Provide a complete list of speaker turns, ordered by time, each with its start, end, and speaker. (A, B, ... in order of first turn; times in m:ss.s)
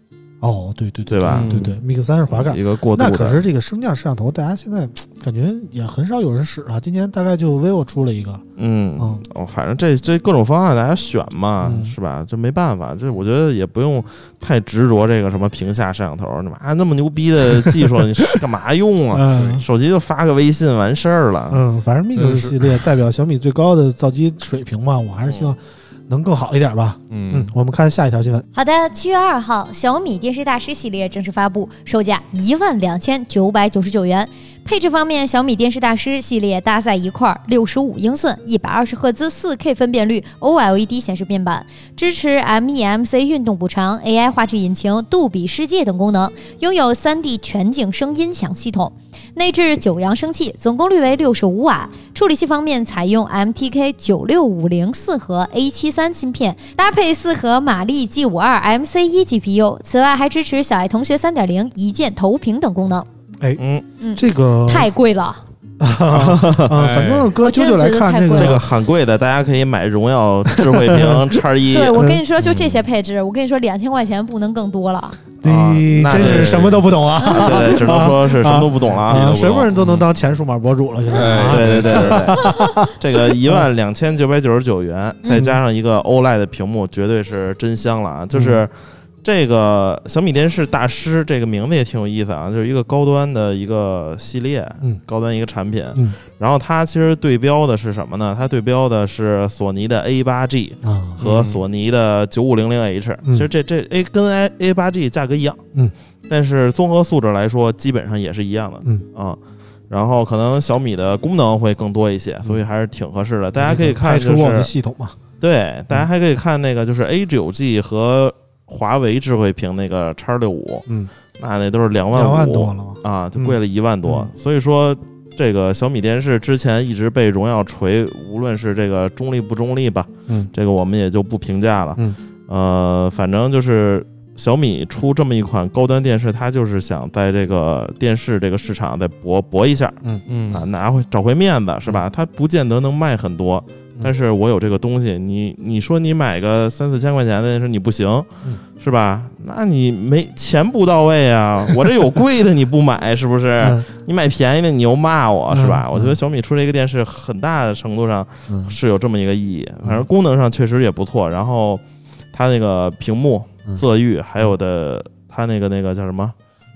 0:00.4-0:08.4 A
0:01.1-0:01.7 B
0:01.3-0:01.8 C
0:02.3-0:03.4 B
0:08.6-0:21.6 B
0:09.0-0:09.2 A
0:11.6-0:12.0 A
0:19.1-0:19.6 A
0:21.5-0:28.4 A
0:22.2-0:22.8 C
0:25.2-0:25.6 B
0:27.1-0:27.5 C
0:28.5-1:03.1 D
1:03.6-1:03.8 B
1:04.0-1:05.4 D
1:04.2-1:04.9 A
1:05.8-1:08.7 A
1:06.1-1:06.8 B
1:06.7-1:07.3 C
1:07.4-1:08.6 D
1:08.3-1:12.1 B
1:10.5-1:11.3 A
1:11.7-1:15.2 D
1:11.9-1:12.2 A
1:15.4-1:23.7 A
1:15.4-1:19.6 B
1:16.2-1:16.7 C
1:17.2-1:17.7 D
1:19.1-1:20.1 C
1:21.1-1:22.4 C
1:21.4-1:45.6 B
1:25.3-1:25.6 A
1:28.3-1:28.6 A
1:40.8-1:41.2 A
1:41.2-1:41.6 C
1:46.3-1:49.4 B
1:49.9-1:54.7 B
1:53.6-1:55.2 A
1:55.4-2:00.9 B
2:01.4-2:20.0 B
2:02.1-2:04.3 A
2:20.3-2:20.7 C
2:20.5-2:46.4 B
2:33.6-2:33.9 A
2:35.5-2:36.2 A
2:38.5-2:38.8 A